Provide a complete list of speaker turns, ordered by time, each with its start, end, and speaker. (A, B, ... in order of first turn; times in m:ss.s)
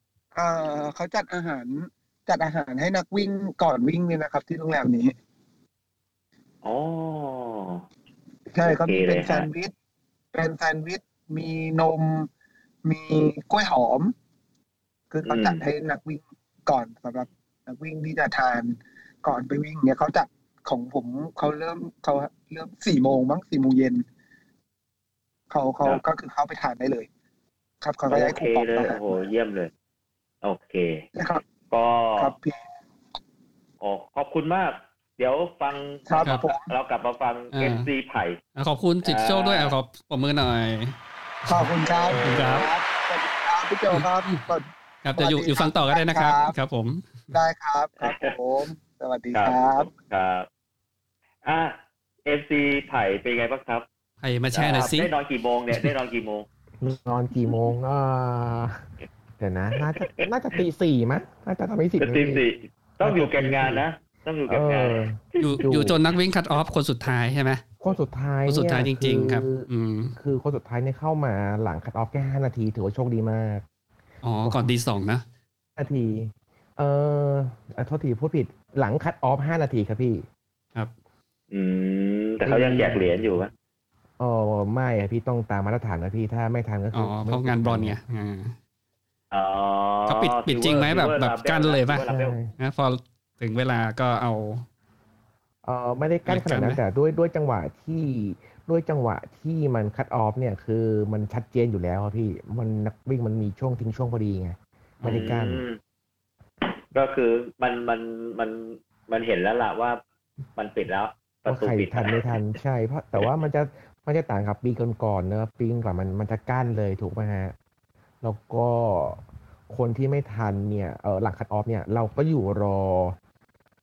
0:00.3-0:05.1 A
0:06.6-0:07.8 B
0:08.5-0:09.7 A
0:08.6-0:09.5 B
0:10.3-0:12.3 A
0:12.8-0:14.1 A
0:15.1-0:24.0 A
0:15.2-0:15.6 B
0:25.5-0:27.1 A
0:27.8-0:29.2 A
0:28.1-0:29.7 B
0:30.4-0:31.0 B
0:31.1-0:31.4 A
0:31.7-0:32.3 B
0:32.2-0:32.6 A
0:33.8-0:38.4 B
0:36.1-0:36.7 A
0:37.5-0:37.9 C
0:38.6-0:42.7 C
0:39.0-0:39.7 B
0:41.5-0:46.5 A
0:41.8-0:42.7 B
0:43.9-0:44.4 C
0:45.0-0:47.1 C
0:47.3-0:49.9 A
0:48.0-0:48.3 B
0:49.3-0:50.5 B
0:51.4-0:53.8 B
0:54.2-0:55.1 C
0:54.5-0:56.4 B
0:56.8-0:58.8 D
0:59.4-1:02.4 D
1:00.0-1:00.2 B
1:02.0-1:05.6 B
1:03.0-1:03.8 D
1:04.5-1:06.0 D
1:05.4-1:07.6 C
1:07.8-1:13.6 D
1:08.5-1:10.1 C
1:14.2-1:15.2 C
1:14.4-1:14.7 D
1:15.8-1:20.2 D
1:21.5-1:23.5 B
1:22.4-1:23.3 D
1:24.2-1:28.0 D
1:26.9-1:28.5 C
1:29.3-1:32.3 B
1:30.1-1:34.6 C
1:32.1-1:32.5 D
1:35.6-1:45.6 D
1:36.2-1:36.8 C
1:45.0-1:45.2 C
1:45.0-1:45.8 B
1:46.9-1:50.0 B
1:50.6-1:52.3 B
1:51.5-1:57.5 D
1:58.2-2:03.2 D